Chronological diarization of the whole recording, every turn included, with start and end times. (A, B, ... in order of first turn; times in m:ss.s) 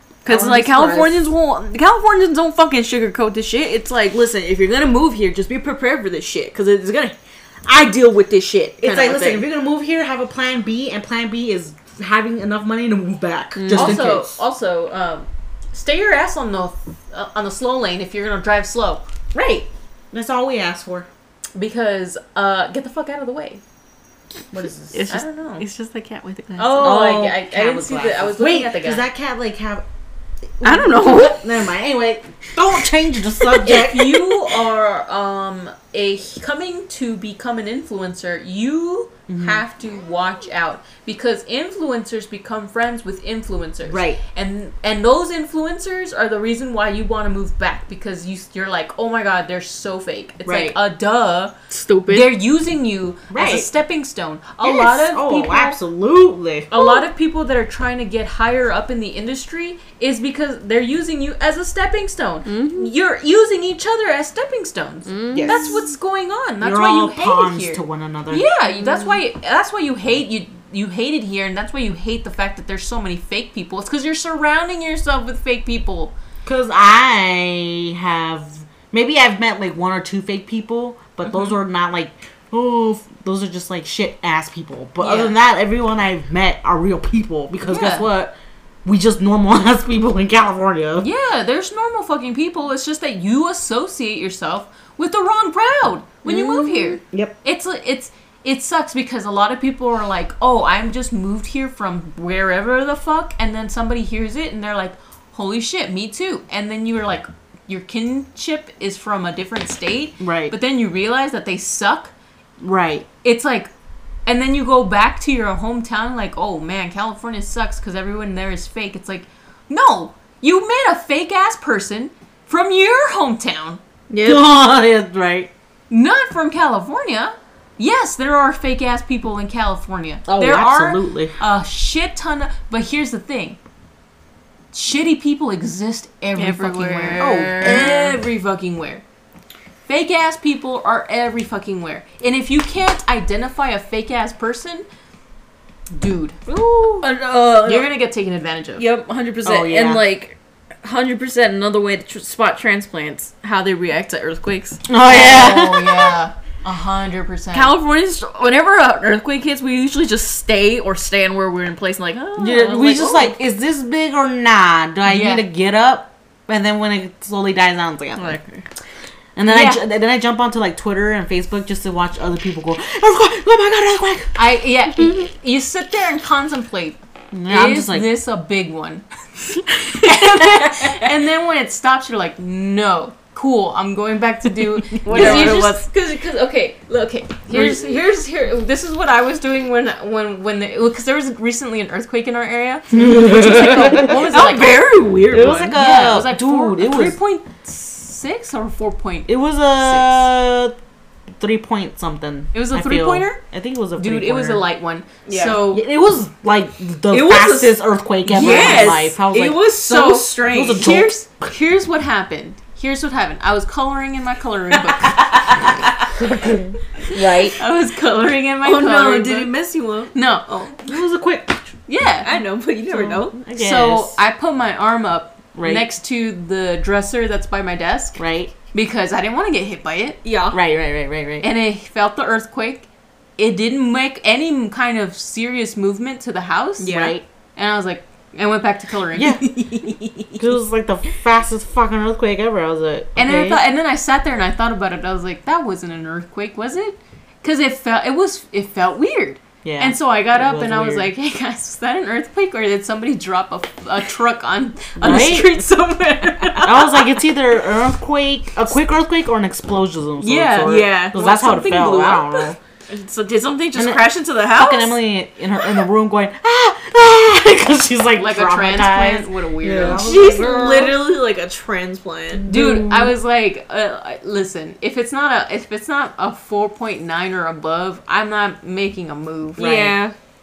0:00.2-0:09.4 A
0:00.2-0:01.2 B
0:08.8-0:14.3 B
0:13.6-0:14.1 A
0:13.7-0:19.0 C
0:19.3-0:21.1 B
0:21.5-0:23.6 C
0:24.5-0:25.1 B
0:24.9-0:26.9 A
0:25.1-0:25.6 C
0:26.6-0:29.0 C
0:26.7-0:29.8 B
0:30.6-0:34.5 B
0:30.6-0:31.4 A
0:33.6-0:51.5 C
0:39.3-0:39.6 B
0:43.8-0:44.2 B
0:51.7-0:52.3 A
0:52.1-0:55.8 C
0:53.3-0:53.7 B
0:54.6-0:56.8 B
0:56.7-1:16.2 C
1:02.4-1:02.9 A
1:05.0-1:05.8 A
1:05.3-1:05.8 B
1:06.6-1:08.4 B
1:16.4-1:31.1 B
1:21.2-1:21.5 C
1:25.0-1:25.3 C
1:27.7-1:28.1 C
1:31.0-1:52.1 C
1:36.2-1:37.0 A
1:50.2-1:50.5 B
1:52.6-1:53.1 B
1:53.2-1:53.7 C
1:54.2-2:03.8 C
2:04.1-2:04.5 A
2:04.2-2:05.5 B
2:05.9-2:13.6 C
2:10.3-2:11.4 B
2:14.7-2:19.0 C
2:16.4-2:18.1 A
2:17.2-2:18.2 B
2:19.8-2:24.8 C
2:25.9-2:26.4 C
2:26.5-2:27.9 A
2:27.6-2:28.8 C
2:28.8-2:34.8 A
2:29.4-2:30.0 B
2:34.9-2:36.2 B
2:35.0-2:37.7 C
2:37.5-2:43.4 A
2:42.4-2:48.4 B
2:45.0-2:45.4 C
2:48.2-2:48.6 A
2:49.4-2:54.4 B
2:49.5-2:49.8 C
2:54.4-3:14.9 C
2:57.3-2:58.1 B
3:00.0-3:00.7 B
3:05.0-3:05.8 A
3:05.0-3:05.7 B
3:07.5-3:07.8 A
3:12.9-3:14.2 B
3:13.4-3:15.7 A
3:15.3-3:17.2 B
3:15.7-3:20.3 C
3:19.3-3:20.7 B
3:21.4-3:24.6 B
3:22.5-3:23.4 C
3:24.0-3:25.8 C
3:25.2-3:25.6 A
3:25.7-3:29.7 B
3:27.1-3:30.9 A
3:28.3-3:35.9 C
3:30.5-3:31.1 B
3:35.0-3:35.8 A
3:36.1-3:37.6 B
3:37.0-3:39.5 C
3:38.6-3:40.8 A
3:40.1-3:40.8 C
3:40.8-3:41.7 B
3:41.9-3:42.3 C
3:42.2-3:43.4 A
3:42.9-3:44.2 B
3:43.5-3:48.2 C
3:45.5-3:45.9 B
3:48.2-3:48.5 B
3:48.7-3:50.2 C
3:50.2-3:50.6 A
3:50.5-3:51.5 B
3:51.4-3:59.7 C
3:56.8-3:57.2 B
3:56.8-3:57.2 A
3:59.1-3:59.5 B
3:59.6-4:00.4 A
4:00.4-4:03.6 B
4:03.2-4:17.1 C
4:09.6-4:11.1 B
4:15.0-4:15.5 B
4:16.3-4:16.6 A
4:16.6-4:22.6 B
4:20.2-4:22.5 C
4:20.6-4:21.2 A
4:22.9-4:25.0 A
4:23.7-4:31.0 B
4:28.2-4:30.5 C
4:29.9-4:32.4 A
4:32.3-4:33.1 B
4:32.5-4:39.9 C
4:39.6-4:40.1 A
4:39.6-4:39.9 B